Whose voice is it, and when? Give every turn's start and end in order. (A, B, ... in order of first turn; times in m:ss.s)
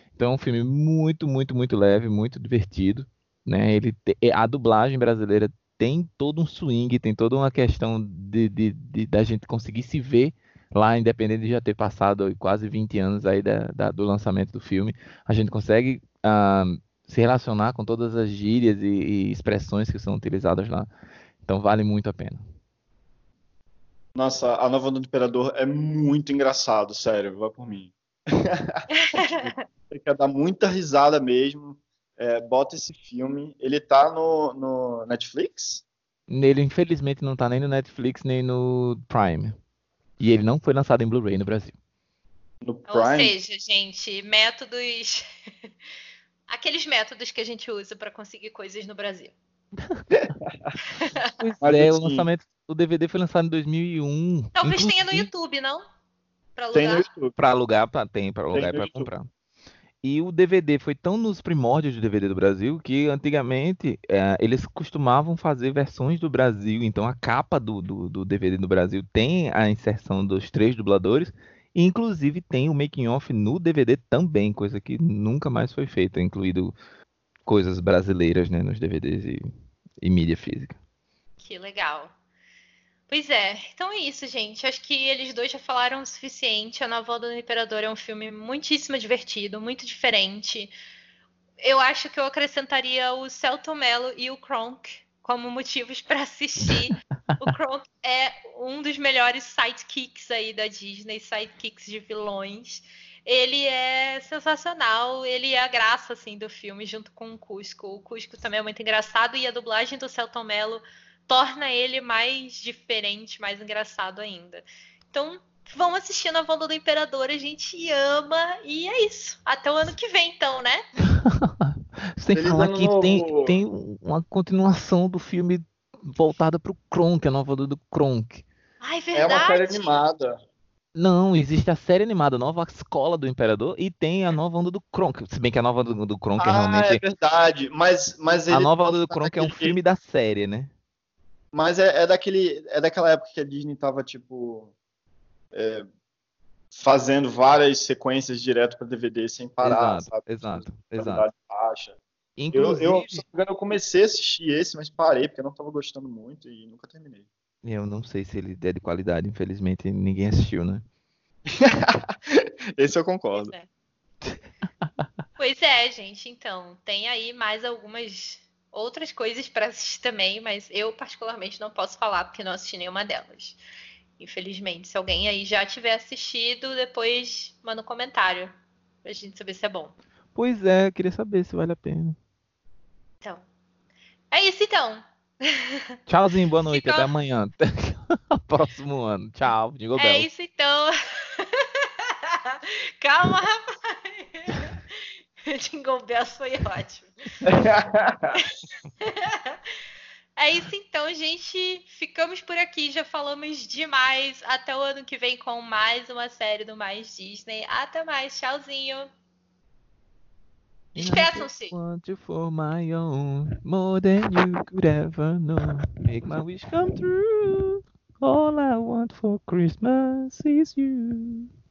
0:00.2-0:20.9 A
0:21.4-0:22.4 A
0:24.1-0:35.8 B
0:28.9-0:29.6 C
0:36.3-0:39.5 A
0:40.2-0:41.7 A
0:42.6-0:43.3 B
0:42.9-0:45.3 C
0:46.5-0:49.3 C
0:50.1-0:50.7 B
0:50.9-0:51.2 C
0:51.3-0:55.3 A
0:51.6-0:52.3 B
0:54.6-0:55.8 C
0:56.6-0:57.1 C
0:56.7-0:57.3 B
0:57.4-0:59.3 A
0:58.5-0:59.1 B
1:00.0-1:16.7 A
1:17.4-1:19.4 A
1:20.0-1:20.8 A
1:21.4-1:22.1 C
1:23.1-1:30.7 C
1:31.6-2:00.8 C
1:36.7-1:36.9 A
2:01.2-2:08.4 A
2:02.3-2:03.6 B
2:08.8-2:09.9 C
2:09.1-2:10.4 B
2:10.9-2:17.0 A
2:16.4-2:19.7 B
2:18.5-2:20.7 A
2:21.5-2:24.7 B
2:25.5-2:25.8 B
2:26.7-2:32.0 B
2:29.6-2:31.3 A
2:32.4-2:33.2 A
2:32.5-2:37.3 B
2:37.6-2:40.8 A
2:41.5-2:43.5 B
2:43.3-2:43.7 C
2:45.4-2:53.6 C
2:54.2-2:58.5 C
2:59.0-2:59.9 C
3:00.3-3:02.2 A
3:04.3-3:05.9 C
3:06.1-3:10.3 A
3:06.7-3:07.1 C
3:10.0-3:17.4 C
3:17.4-3:18.4 B
3:18.5-3:19.6 C
3:20.4-3:29.1 C
3:30.9-3:41.5 A
3:31.0-3:31.8 C